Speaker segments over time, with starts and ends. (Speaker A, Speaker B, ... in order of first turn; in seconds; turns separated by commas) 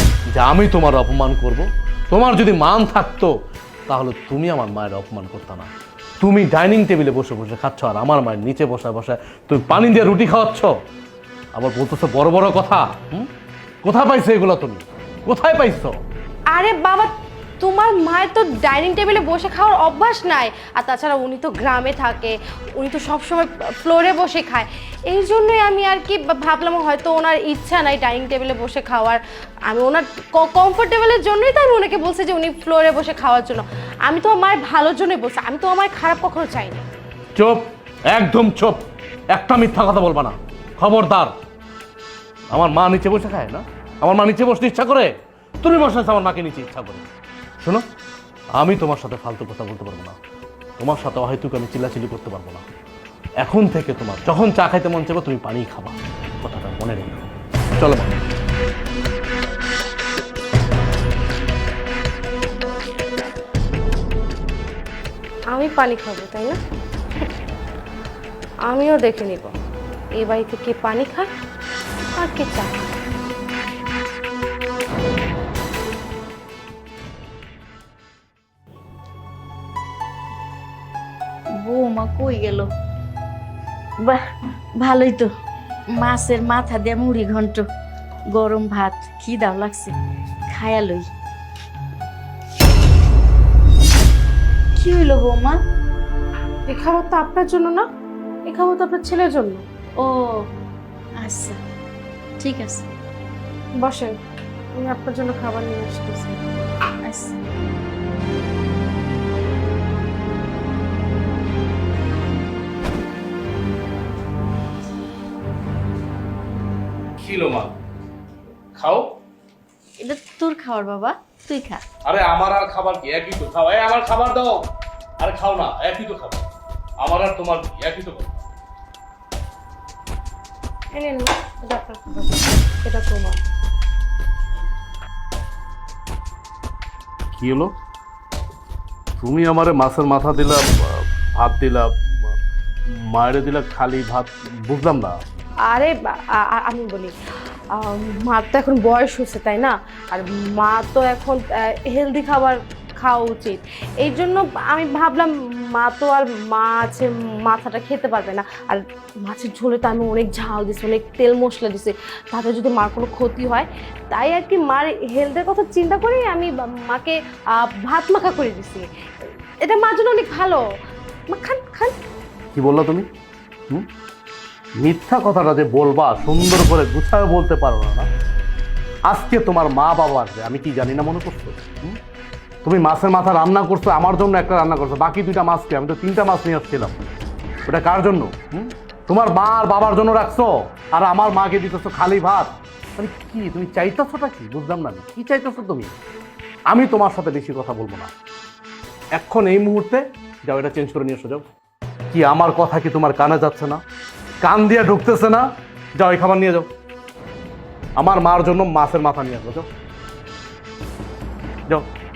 Speaker A: 0.3-3.3, Speaker A: 3.9-5.7, Speaker A: 6.2-10.7, Speaker A: 11.5-13.3, Speaker A: 13.8-15.9, Speaker B: 16.5-36.8, Speaker A: 37.4-38.8, Speaker A: 39.3-41.3, Speaker A: 42.5-45.1, Speaker A: 45.6-47.1, Speaker A: 48.5-50.1, Speaker A: 50.8-52.6, Speaker A: 53.4-58.2, Speaker B: 65.5-66.6, Speaker B: 68.7-69.5, Speaker B: 70.2-71.3, Speaker B: 72.2-72.9, Speaker C: 81.6-82.7, Speaker C: 84.0-84.2, Speaker C: 84.8-85.3, Speaker C: 85.9-87.7, Speaker C: 88.3-90.0, Speaker C: 90.5-91.1, Speaker C: 94.8-95.6, Speaker B: 96.7-97.8, Speaker B: 98.5-99.6, Speaker C: 100.0-100.5, Speaker C: 101.2-101.6, Speaker C: 102.4-102.9, Speaker B: 103.8-104.2, Speaker B: 104.7-106.6, Speaker C: 107.0-107.4, Speaker A: 117.2-117.8, Speaker A: 118.7-119.1, Speaker C: 120.0-121.8, Speaker A: 122.0-126.4, Speaker A: 127.0-128.4, Speaker B: 130.9-133.4, Speaker A: 137.3-137.7, Speaker A: 139.2-142.3, Speaker A: 142.9-145.2, Speaker B: 145.7-147.1, Speaker B: 147.7-168.9, Speaker B: 169.6-170.6, Speaker B: 171.3-171.9, Speaker A: 172.5-173.1, Speaker A: 174.8-178.1, Speaker A: 179.1-182.0, Speaker A: 182.6-187.0, Speaker A: 187.7-195.9, Speaker A: 196.7-198.1, Speaker A: 199.2-201.4, Speaker A: 202.1-203.8, Speaker A: 204.4-206.7, Speaker A: 208.0-209.7